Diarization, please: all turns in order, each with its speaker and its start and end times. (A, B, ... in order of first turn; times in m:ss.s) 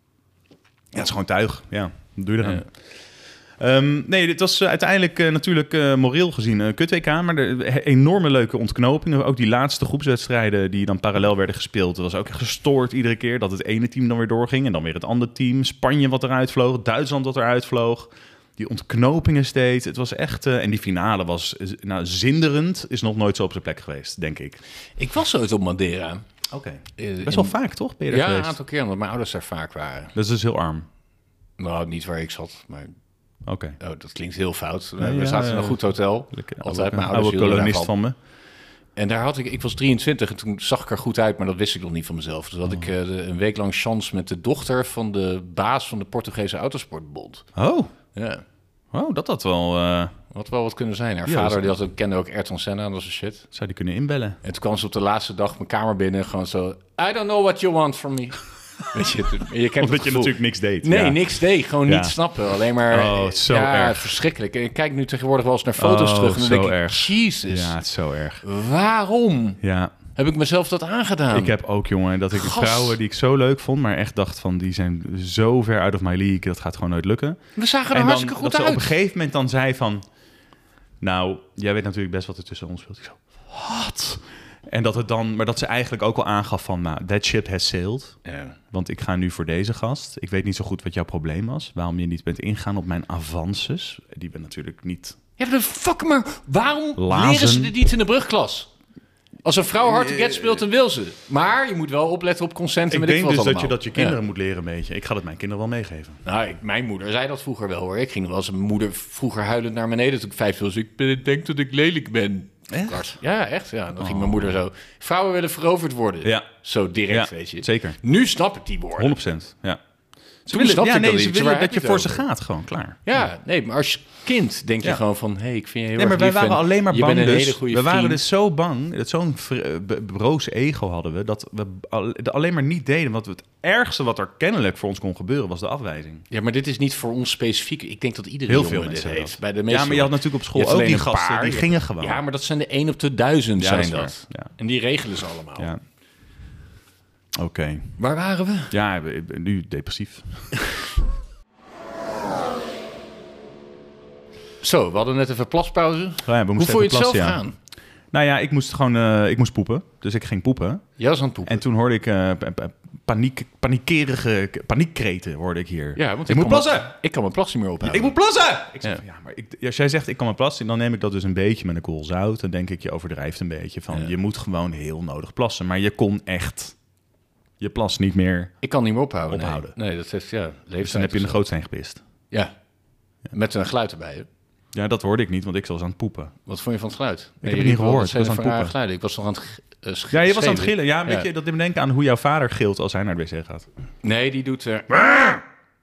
0:00.9-0:02.7 A
0:03.6-0:24.6 A
0:25.0-0:26.2 B
0:26.5-0:28.6 A
0:27.0-0:27.5 B
0:28.1-0:30.1 B
0:30.1-0:30.9 A
0:31.6-0:32.9 B
0:33.4-0:33.8 A
0:33.8-0:37.9 B
0:35.0-0:38.1 A
0:39.0-0:47.5 B
0:47.5-0:47.9 A
0:48.1-0:48.4 B
0:48.9-0:50.1 A
0:50.3-0:53.4 B
0:51.2-0:51.7 A
0:53.5-0:54.4 A
0:54.4-0:58.4 B
0:58.9-1:07.8 B
0:59.8-1:01.2 A
1:01.8-1:02.2 A
1:02.9-1:04.1 A
1:05.8-1:08.4 A
1:08.4-1:09.6 B
1:09.6-1:09.9 A
1:10.2-1:11.6 B
1:11.3-1:17.4 A
1:12.3-1:13.0 B
1:17.6-1:18.9 B
1:17.9-1:20.0 A
1:21.0-1:28.2 A
1:28.2-1:28.6 B
1:28.7-1:35.2 A
1:35.4-1:38.7 B
1:37.0-1:37.7 A
1:39.4-1:44.2 B
1:39.8-1:40.6 A
1:42.9-1:46.2 A
1:46.2-1:59.1 B
1:52.7-1:53.0 A
1:54.0-1:54.6 A
1:57.1-1:58.0 A
1:59.0-1:59.8 A
2:00.4-2:03.2 A
2:00.5-2:02.2 B
2:03.0-2:08.2 B
2:06.0-2:16.2 A
2:16.3-2:25.7 B
2:18.5-2:22.2 A
2:23.6-2:24.5 A
2:27.4-2:28.0 A
2:28.0-2:28.7 B
2:28.7-2:30.6 A
2:34.6-2:37.5 B
2:36.2-2:37.4 A
2:38.1-2:40.8 A
2:41.0-2:41.6 B
2:41.4-2:46.9 A
2:46.0-2:48.1 B
2:47.8-2:56.7 A
2:57.6-2:58.5 A
2:58.6-3:01.4 B
2:59.3-2:59.7 A
3:00.8-3:02.0 A
3:03.3-3:04.3 B
3:04.7-3:06.3 A
3:06.4-3:11.3 B
3:07.4-3:08.7 A
3:10.1-3:13.6 A
3:14.0-3:15.4 B